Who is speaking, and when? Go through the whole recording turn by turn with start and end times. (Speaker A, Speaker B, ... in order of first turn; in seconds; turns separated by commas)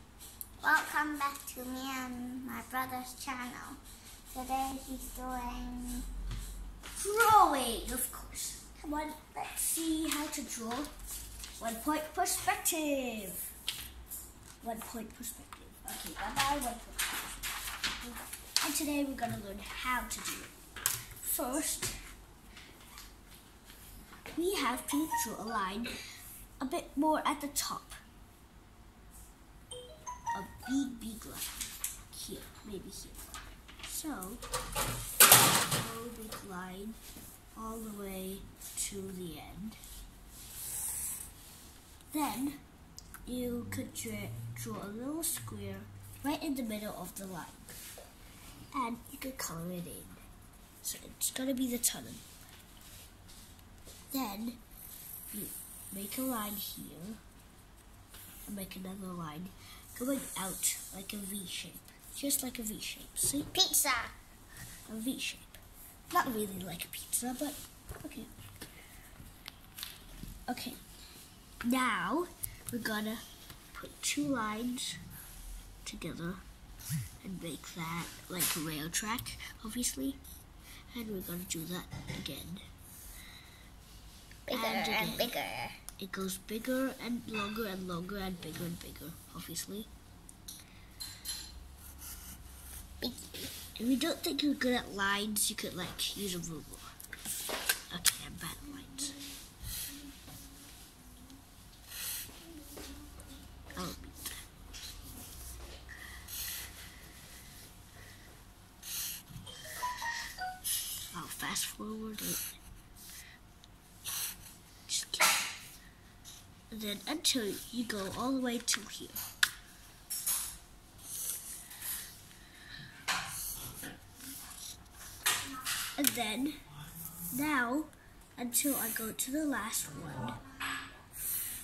Speaker A: 0.6-6.1, Speaker B: 6.9-10.9, Speaker B: 11.6-13.5, Speaker B: 14.6-17.4, Speaker B: 18.0-20.5, Speaker B: 21.2-22.0, Speaker B: 24.3-25.9, Speaker B: 26.6-28.0, Speaker B: 30.3-34.4, Speaker B: 35.6-37.0, Speaker B: 37.5-39.8, Speaker B: 42.1-42.6, Speaker B: 43.2-47.8, Speaker B: 48.7-50.2, Speaker B: 50.8-52.2, Speaker B: 54.1-54.6, Speaker B: 55.3-57.2, Speaker B: 58.5-63.5, Speaker A: 63.5-64.2, Speaker B: 64.9-65.6, Speaker B: 66.1-68.3, Speaker B: 70.5-70.8, Speaker B: 71.6-75.0, Speaker B: 75.8-76.4, Speaker B: 77.2-80.2, Speaker B: 80.9-82.7, Speaker B: 84.5-85.4, Speaker A: 84.5-85.8, Speaker B: 85.9-89.9, Speaker A: 93.0-93.5, Speaker B: 93.6-96.9, Speaker B: 97.9-99.2, Speaker B: 103.7-104.5, Speaker B: 111.1-112.6, Speaker B: 114.9-115.4, Speaker B: 116.7-119.2, Speaker B: 126.0-126.7, Speaker B: 127.3-130.4